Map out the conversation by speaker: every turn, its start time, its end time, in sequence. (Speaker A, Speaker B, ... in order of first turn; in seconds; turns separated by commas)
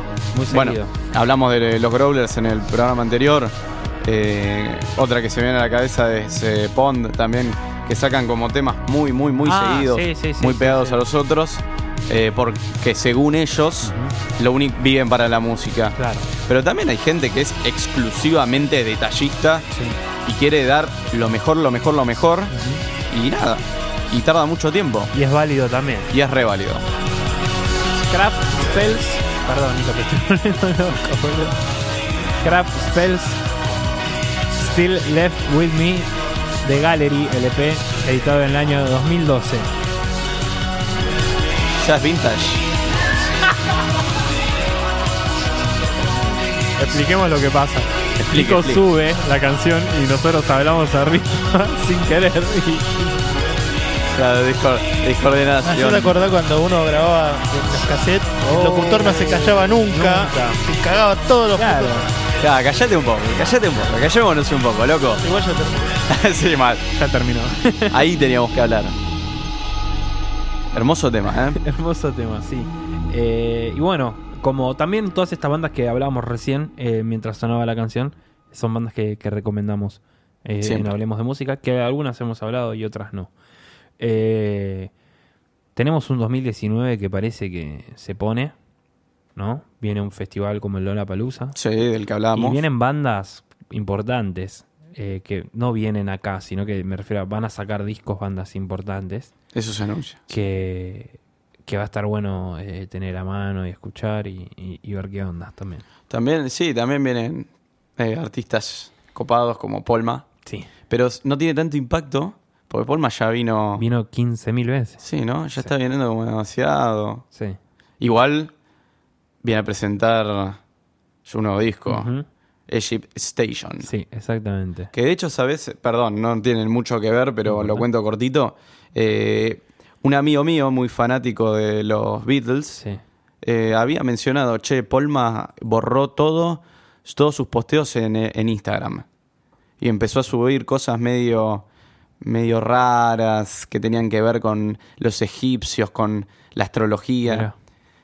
Speaker A: 0.3-0.9, Speaker B: 0.5-15.9, Speaker A: 9.4-11.0, Speaker A: 13.8-14.2, Speaker A: 15.9-16.3, Speaker B: 16.5-19.6, Speaker A: 19.7-20.0, Speaker B: 20.2-22.5, Speaker A: 22.5-22.8, Speaker B: 23.1-25.1, Speaker A: 25.1-26.1, Speaker B: 26.1-26.8, Speaker A: 28.0-31.6, Speaker A: 32.4-33.4, Speaker A: 34.5-36.1, Speaker A: 36.6-39.7, Speaker B: 41.8-42.6, Speaker A: 46.8-53.2, Speaker B: 48.2-48.8, Speaker B: 54.1-56.2, Speaker C: 55.7-62.0, Speaker A: 58.4-60.7, Speaker A: 61.5-62.1, Speaker B: 62.4-65.3, Speaker C: 65.2-66.0, Speaker B: 66.0-66.8, Speaker A: 66.9-68.0, Speaker B: 67.9-69.0, Speaker B: 70.7-71.6, Speaker A: 71.5-83.3, Speaker B: 80.6-81.0, Speaker A: 84.0-84.9, Speaker A: 85.8-88.5, Speaker A: 89.3-91.5, Speaker B: 91.5-92.7, Speaker A: 92.3-99.3, Speaker B: 99.5-100.2, Speaker A: 100.3-105.8, Speaker B: 106.1-110.3, Speaker A: 110.4-110.7, Speaker B: 110.9-113.8, Speaker A: 113.8-115.0, Speaker B: 115.0-117.2, Speaker B: 118.0-118.5, Speaker B: 119.4-120.6, Speaker B: 121.2-122.1, Speaker A: 121.9-122.2, Speaker B: 122.7-123.9, Speaker A: 123.8-124.9, Speaker B: 124.9-132.8, Speaker A: 127.4-127.8, Speaker B: 133.4-139.0, Speaker B: 139.8-141.7, Speaker B: 142.2-147.5, Speaker A: 147.2-147.5